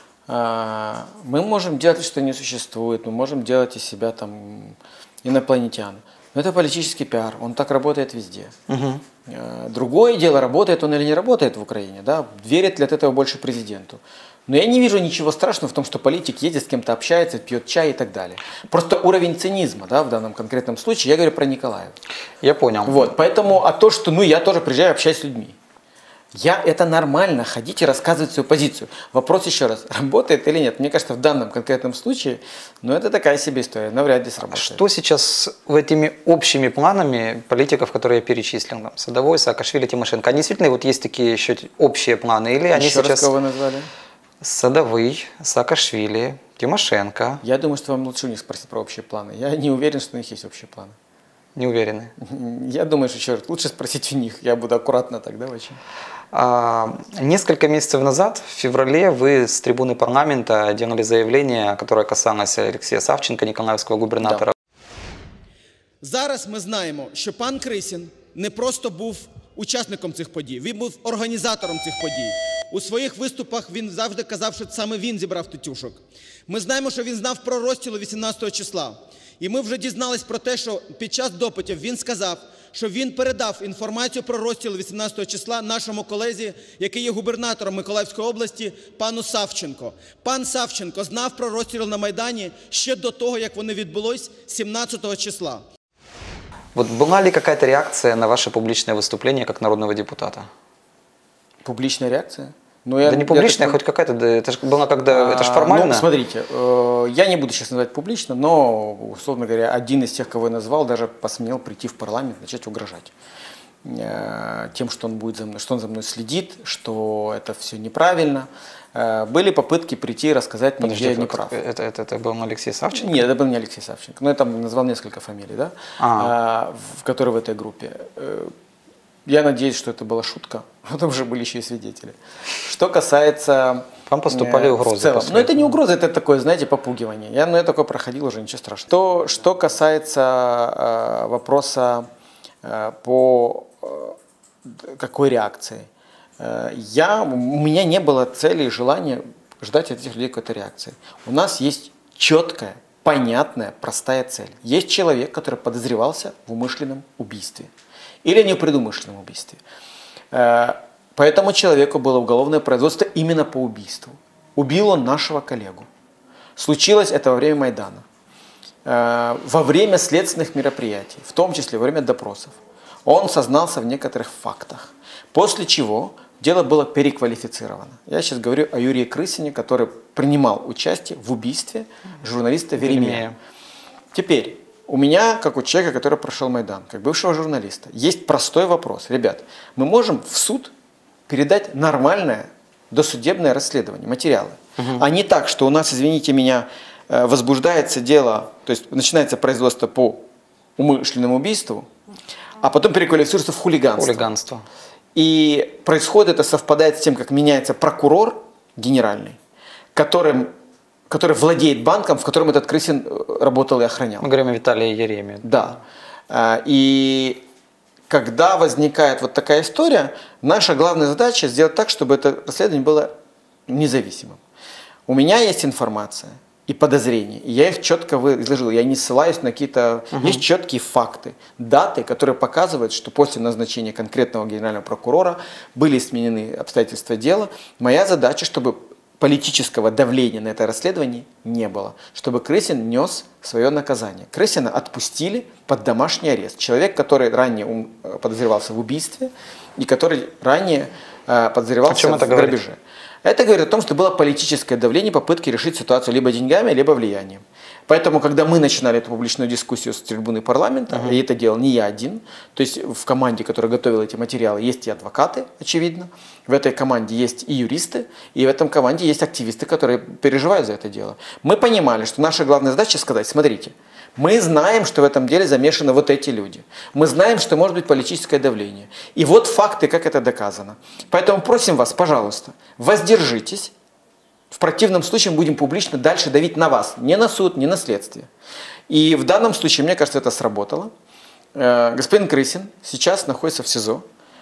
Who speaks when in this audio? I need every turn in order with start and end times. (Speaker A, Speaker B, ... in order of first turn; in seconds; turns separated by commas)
Speaker A: 0.3-8.5, Speaker B: 8.7-9.0, Speaker A: 9.2-21.9, Speaker B: 22.4-23.1, Speaker A: 22.8-25.6, Speaker A: 26.3-34.8, Speaker B: 34.5-43.3, Speaker A: 42.7-43.9, Speaker B: 44.4-47.4, Speaker A: 47.4-50.9, Speaker B: 51.5-52.1, Speaker A: 52.2-55.8, Speaker B: 56.3-64.5, Speaker C: 66.0-95.6, Speaker B: 96.7-100.5, Speaker A: 101.6-103.8, Speaker B: 103.0-106.1, Speaker A: 105.1-113.1, Speaker A: 113.8-121.5, Speaker B: 120.8-123.2, Speaker A: 122.9-128.5, Speaker B: 126.0-126.3, Speaker A: 129.2-142.1, Speaker B: 134.1-135.8, Speaker A: 142.6-145.9, Speaker A: 146.4-157.7, Speaker A: 158.2-159.6, Speaker A: 160.3-165.9, Speaker A: 166.6-168.0, Speaker A: 168.8-183.3, Speaker B: 182.8-183.3, Speaker A: 184.1-190.7, Speaker A: 191.3-200.2, Speaker B: 194.8-195.0, Speaker A: 200.8-201.9, Speaker A: 202.6-204.2, Speaker B: 203.9-204.7, Speaker A: 205.1-209.4, Speaker A: 209.9-210.5, Speaker A: 211.1-214.3, Speaker B: 214.2-215.6, Speaker A: 215.4-217.4, Speaker A: 218.1-223.1, Speaker A: 223.7-224.4, Speaker A: 225.1-283.7, Speaker B: 230.1-230.4, Speaker B: 251.9-252.6, Speaker B: 260.9-261.2, Speaker A: 284.5-288.3, Speaker A: 288.9-290.9, Speaker A: 291.5-294.0